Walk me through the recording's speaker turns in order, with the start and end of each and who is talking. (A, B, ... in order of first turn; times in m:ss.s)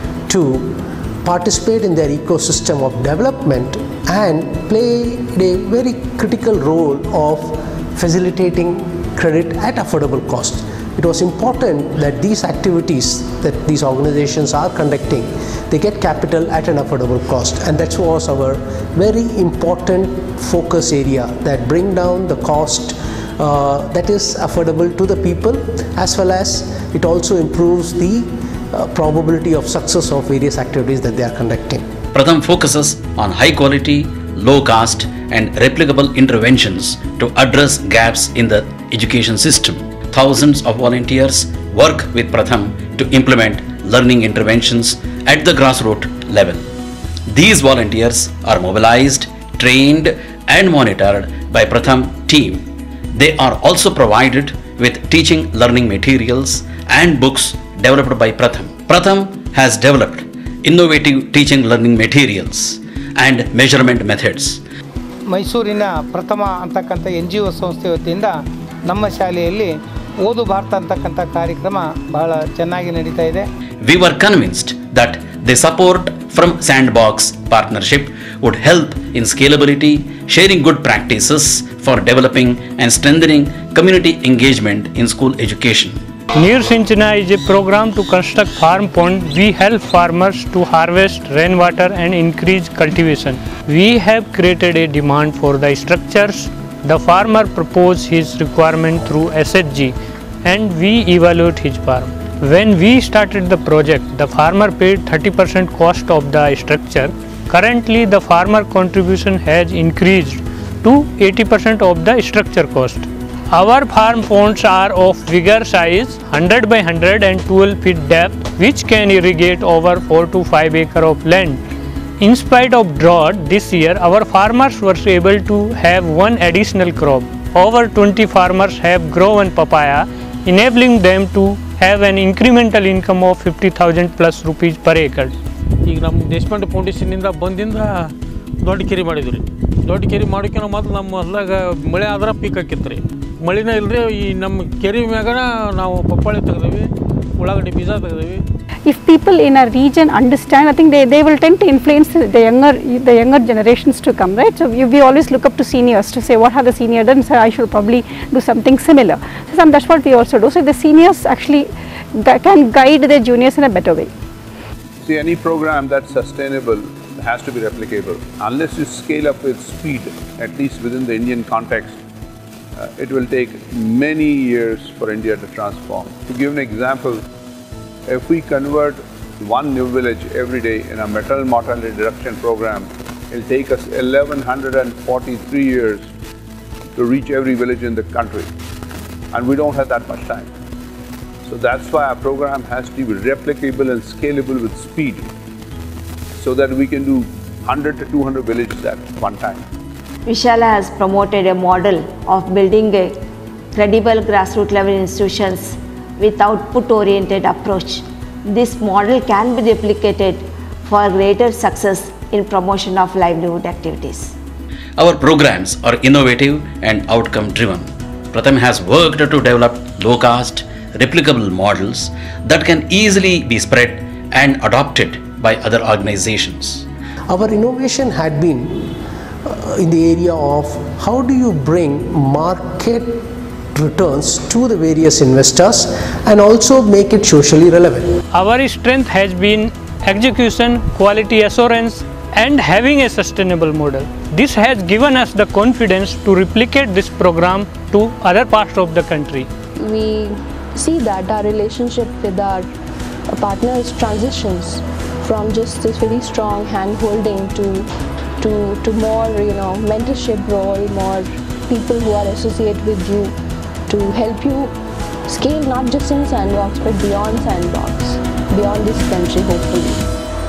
0:00.3-0:31.8 A
0:32.1-0:46.6 B
0:47.3-0:52.6 B
0:53.1-1:04.6 B
1:05.3-1:08.3 C
1:08.9-1:13.4 C
1:13.8-1:26.0 B
1:26.4-2:01.6 D
2:02.2-2:15.3 D
2:15.8-2:28.4 E
2:28.8-2:44.1 F
2:45.0-2:52.0 G
2:52.8-2:57.2 G
2:58.1-3:06.1 G
3:07.0-3:08.5 G
3:09.3-3:10.5 G
3:11.4-3:15.3 G
3:16.4-3:19.6 G
3:20.2-3:23.2 H
3:23.7-3:34.3 H
3:35.0-3:46.8 B
3:47.3-3:48.9 A
3:49.4-3:53.2 A
3:53.7-3:58.1 A
3:58.3-4:09.5 D
4:09.8-4:12.7 I
4:13.3-4:17.9 I
4:18.4-4:23.3 I
4:23.9-4:24.7 I
4:25.3-4:30.0 I